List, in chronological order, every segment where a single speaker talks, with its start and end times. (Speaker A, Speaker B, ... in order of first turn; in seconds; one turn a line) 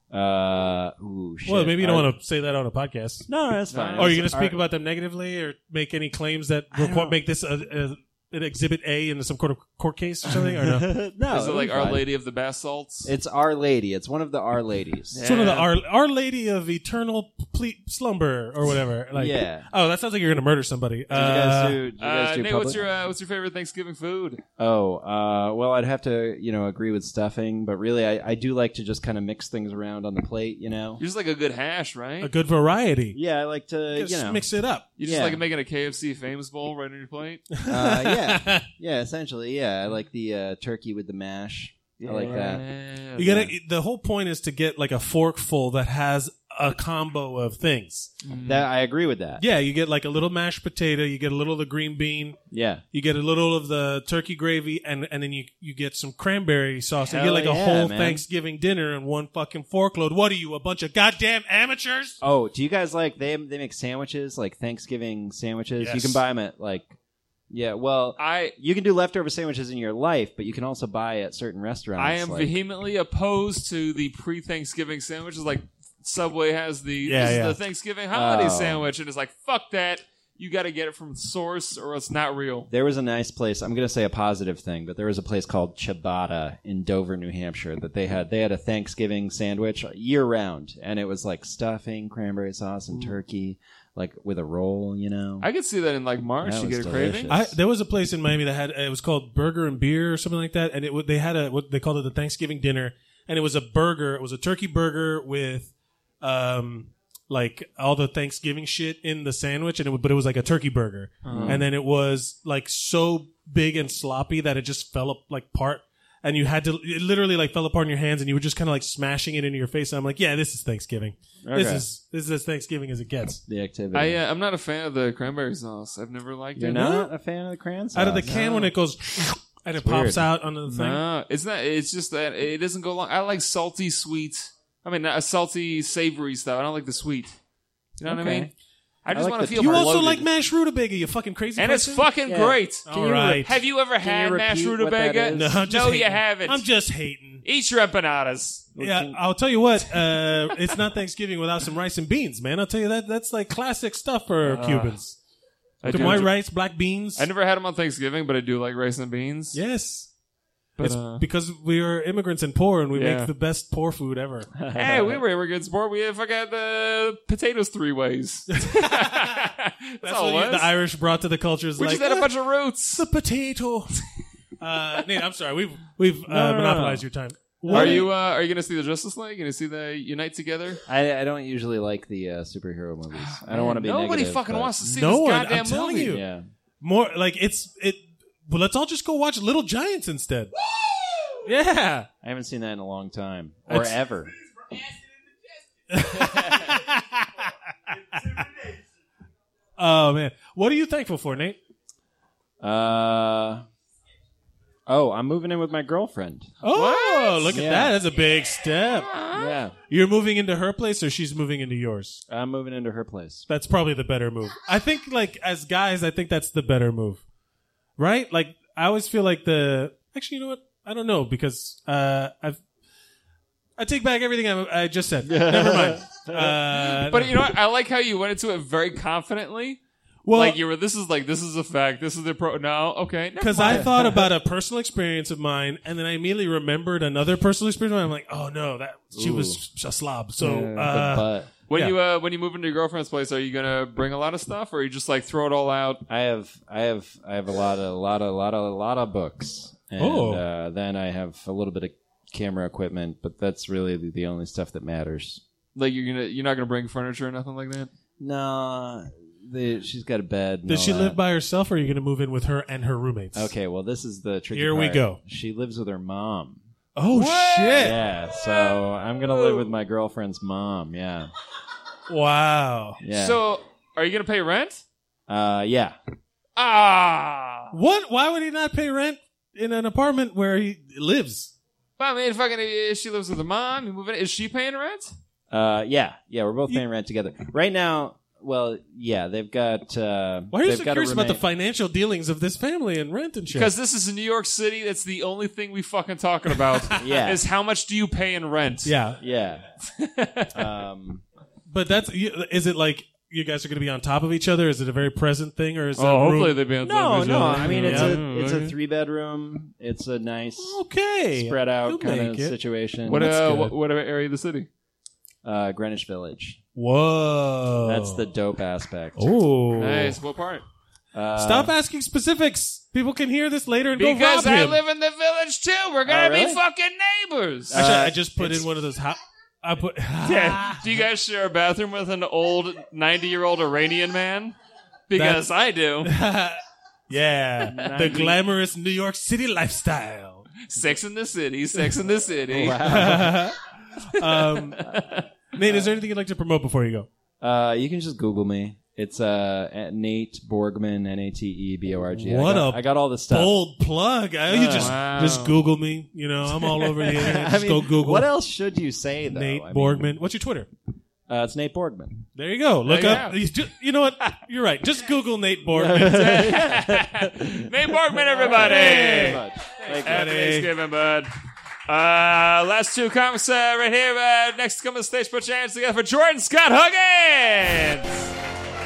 Speaker A: 0.1-2.1
Speaker B: 1.4-3.2
Speaker A: 3.3-4.6
Speaker C: 3.7-4.3
Speaker B: 4.0-10.9
Speaker A: 6.7-7.2
Speaker A: 10.3-12.1
Speaker C: 11.3-13.1
Speaker A: 13.0-15.2
Speaker C: 15.1-15.7
Speaker B: 15.2-21.8
Speaker A: 19.1-19.7
Speaker A: 21.1-22.9
Speaker C: 22.0-24.4
Speaker A: 24.6-31.0
Speaker C: 31.0-32.3
Speaker B: 32.2-33.1
Speaker A: 33.1-34.5
Speaker B: 33.9-34.9
Speaker C: 35.0-37.5
Speaker A: 35.0-35.4
Speaker B: 37.6-38.6
Speaker A: 37.7-42.7
Speaker C: 42.0-43.4
Speaker B: 43.2-48.1
Speaker A: 43.2-43.5
Speaker C: 48.2-48.7
Speaker A: 48.4-49.4
Speaker B: 49.4-52.4
Speaker A: 52.5-52.8
Speaker B: 52.9-62.2
Speaker A: 57.1-58.2
Speaker A: 62.2-66.9
Speaker B: 65.8-66.2
Speaker A: 67.5-72.6
Speaker C: 68.2-68.5
Speaker C: 72.0-82.7
Speaker B: 77.0-77.6
Speaker A: 78.1-78.9
Speaker A: 82.7-95.5
Speaker C: 95.4-97.4
Speaker A: 96.4-97.5
Speaker B: 97.3-123.4
Speaker C: 111.2-111.6
Speaker A: 111.3-111.7
Speaker A: 121.4-121.8
Speaker A: 123.5-124.2
Speaker C: 123.9-127.0
Speaker A: 126.5-128.6
Speaker B: 126.7-127.1
Speaker B: 127.9-131.0
Speaker C: 128.3-128.7
Speaker A: 129.7-130.3
Speaker C: 130.7-137.4
Speaker C: 138.0-138.5
Speaker A: 138.0-138.5
Speaker C: 139.0-140.3
Speaker A: 139.1-140.0
Speaker B: 139.6-142.1
Speaker C: 141.6-146.7
Speaker A: 142.2-145.7
Speaker B: 142.8-143.6
Speaker B: 145.3-147.4
Speaker C: 147.4-149.0
Speaker A: 148.8-149.2
Speaker B: 148.8-155.2
Speaker C: 154.4-155.0
Speaker C: 155.8-156.4
Speaker B: 155.8-157.3
Speaker A: 155.9-156.2
Speaker C: 157.2-159.6
Speaker B: 159.5-160.1
Speaker B: 160.8-164.5
Speaker C: 160.8-161.2
Speaker C: 162.9-163.3
Speaker A: 164.6-165.2
Speaker C: 164.7-170.7
Speaker B: 168.6-169.5
Speaker B: 170.0-172.3
Speaker C: 171.8-173.0
Speaker B: 172.9-174.0
Speaker B: 174.6-178.1
Speaker C: 176.3-177.0
Speaker A: 177.7-178.1
Speaker C: 177.7-180.8
Speaker A: 180.9-184.8
Speaker C: 183.2-186.2
Speaker B: 184.8-186.2
Speaker A: 186.0-186.5
Speaker B: 186.8-190.5
Speaker B: 191.4-192.1
Speaker A: 192.2-194.3
Speaker B: 195.9-197.5
Speaker B: 199.8-201.6
Speaker A: 202.6-203.6
Speaker A: 204.9-206.5
Speaker B: 206.6-209.1
Speaker C: 206.7-207.6
Speaker A: 207.5-207.9
Speaker C: 209.1-209.5
Speaker A: 209.3-209.7
Speaker B: 209.9-212.2
Speaker A: 212.3-213.4
Speaker B: 213.5-217.2
Speaker B: 218.0-222.6
Speaker B: 223.8-227.5
Speaker A: 225.2-226.6
Speaker C: 226.8-229.8
Speaker B: 230.2-230.6
Speaker C: 230.3-234.1
Speaker B: 233.4-241.9
Speaker A: 233.7-234.2
Speaker A: 239.1-239.6
Speaker C: 240.4-241.1
Speaker A: 240.8-241.5
Speaker C: 241.7-246.0
Speaker A: 246.1-255.4
Speaker B: 250.0-250.4
Speaker C: 255.7-257.9
Speaker A: 258.2-261.2
Speaker B: 260.7-263.5
Speaker A: 263.3-266.6
Speaker B: 264.5-265.2
Speaker B: 266.9-268.0
Speaker C: 267.1-268.7
Speaker A: 267.7-271.3
Speaker C: 269.3-269.7
Speaker B: 272.1-273.0
Speaker A: 273.0-273.4
Speaker C: 273.1-274.8
Speaker A: 275.3-275.9
Speaker C: 276.6-277.7
Speaker B: 277.7-281.5
Speaker C: 282.0-285.1
Speaker A: 285.5-291.4
Speaker B: 290.5-293.7
Speaker C: 293.5-299.0
Speaker A: 297.0-297.4
Speaker B: 298.8-299.2
Speaker A: 299.2-299.6
Speaker C: 299.9-300.5
Speaker A: 300.5-301.2
Speaker B: 301.7-308.2
Speaker C: 306.0-308.7
Speaker A: 306.9-310.8
Speaker B: 310.6-312.5
Speaker A: 311.3-313.8
Speaker C: 313.1-314.7
Speaker A: 315.4-316.6
Speaker B: 316.7-318.2
Speaker A: 317.8-319.3
Speaker B: 319.2-320.2
Speaker C: 319.8-320.6
Speaker A: 321.1-321.7
Speaker B: 321.4-324.8
Speaker C: 323.9-328.0
Speaker A: 326.0-326.6
Speaker A: 327.7-328.7
Speaker B: 327.7-330.9
Speaker C: 330.2-334.5
Speaker C: 335.1-336.1
Speaker B: 335.1-335.5
Speaker B: 336.0-340.5
Speaker C: 337.7-338.3
Speaker A: 337.7-338.2
Speaker C: 340.6-343.1
Speaker A: 342.5-343.5
Speaker B: 342.8-343.6
Speaker B: 344.1-344.9
Speaker C: 344.2-345.2
Speaker B: 345.5-347.1
Speaker A: 347.4-353.6
Speaker B: 352.2-358.3
Speaker C: 354.5-355.5
Speaker A: 354.6-354.9
Speaker A: 357.1-360.1
Speaker B: 359.3-360.7
Speaker A: 361.3-362.2
Speaker B: 362.3-366.4
Speaker C: 362.9-363.4
Speaker A: 365.7-370.3
Speaker C: 366.0-369.4
Speaker B: 368.6-369.4
Speaker B: 369.9-370.7
Speaker C: 370.0-371.3
Speaker C: 371.9-378.3